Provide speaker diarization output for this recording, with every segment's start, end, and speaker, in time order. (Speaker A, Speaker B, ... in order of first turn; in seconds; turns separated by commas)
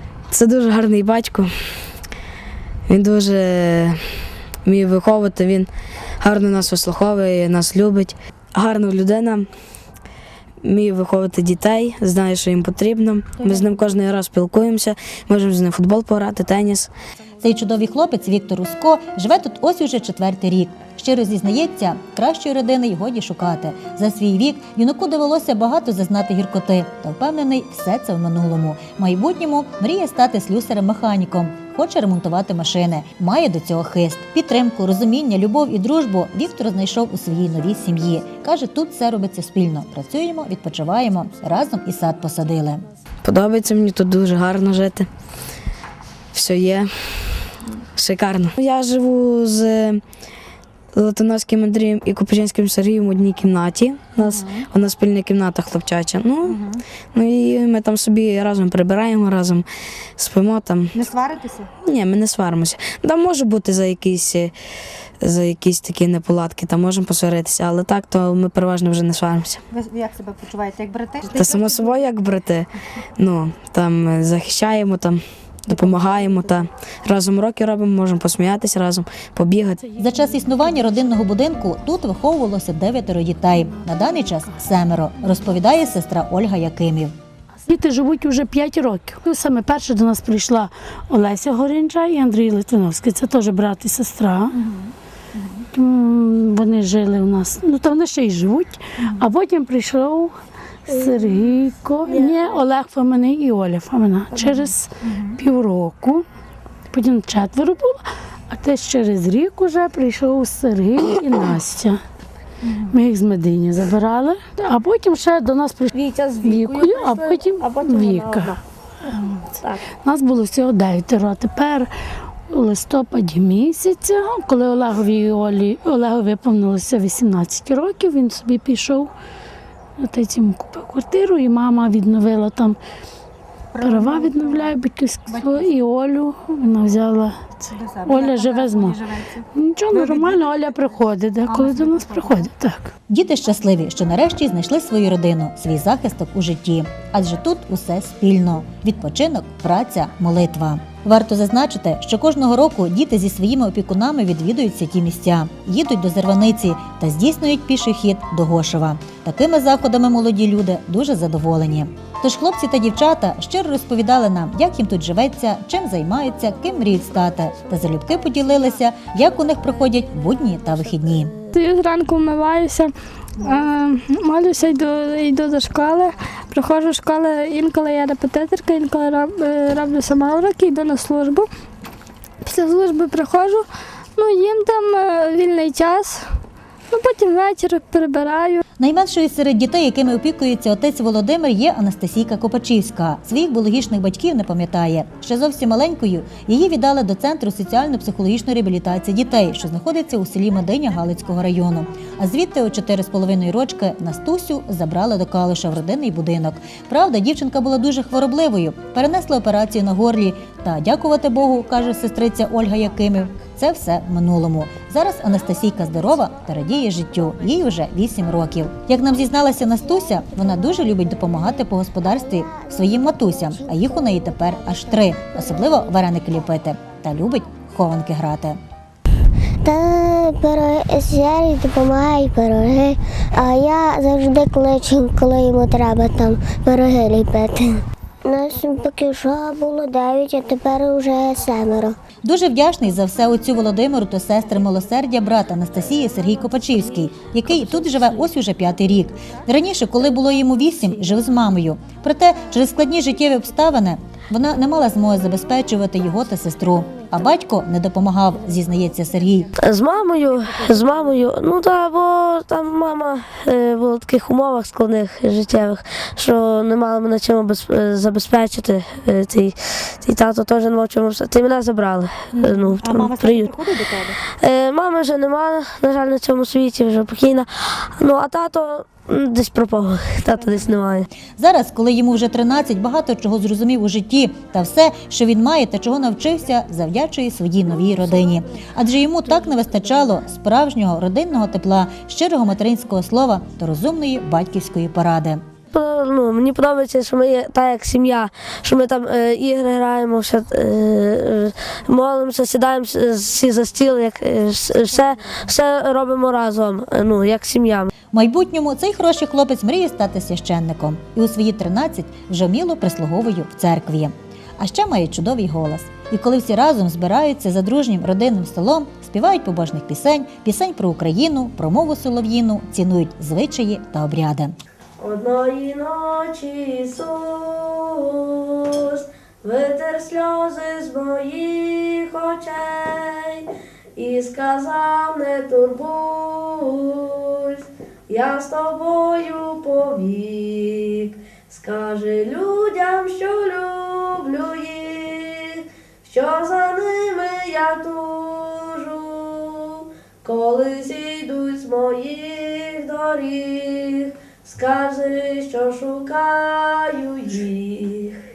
Speaker A: 0.3-1.5, Speaker A: 2.9-4.0, Speaker A: 4.6-5.7, Speaker A: 6.2-9.5, Speaker A: 10.6-16.9, Speaker B: 17.4-42.8, Speaker A: 43.2-45.1, Speaker A: 46.3-50.0, Speaker A: 51.0-56.6, Speaker C: 54.2-54.7, Speaker C: 56.5-56.8, Speaker A: 57.1-59.6, Speaker A: 60.2-61.0, Speaker C: 60.9-61.7, Speaker A: 61.8-64.5, Speaker A: 65.2-69.6, Speaker C: 69.7-71.8, Speaker A: 71.2-72.7, Speaker A: 73.2-79.9, Speaker D: 79.8-80.9, Speaker B: 80.0-87.1, Speaker D: 83.8-84.5, Speaker D: 87.7-94.6, Speaker D: 95.7-100.3, Speaker D: 100.9-106.3, Speaker D: 106.9-112.0, Speaker D: 112.7-115.9, Speaker E: 115.9-118.6, Speaker D: 116.4-119.4, Speaker E: 119.2-119.8, Speaker D: 120.0-121.9, Speaker D: 122.5-129.1, Speaker D: 130.0-132.8, Speaker C: 133.7-135.8, Speaker D: 133.8-142.9, Speaker C: 137.7-142.5, Speaker B: 143.1-171.3, Speaker E: 166.5-167.8, Speaker E: 170.6-171.5, Speaker F: 171.5-181.5, Speaker F: 182.4-186.4, Speaker F: 186.9-188.6, Speaker B: 188.8-228.6, Speaker G: 222.0-225.8, Speaker G: 229.6-237.7, Speaker G: 238.2-241.9, Speaker B: 242.2-259.5, Speaker E: 259.6-273.6, Speaker C: 272.3-274.2, Speaker E: 274.4-281.1, Speaker B: 281.4-295.4, Speaker E: 295.7-307.9, Speaker B: 308.1-324.5, Speaker E: 325.0-333.4, Speaker E: 333.9-358.2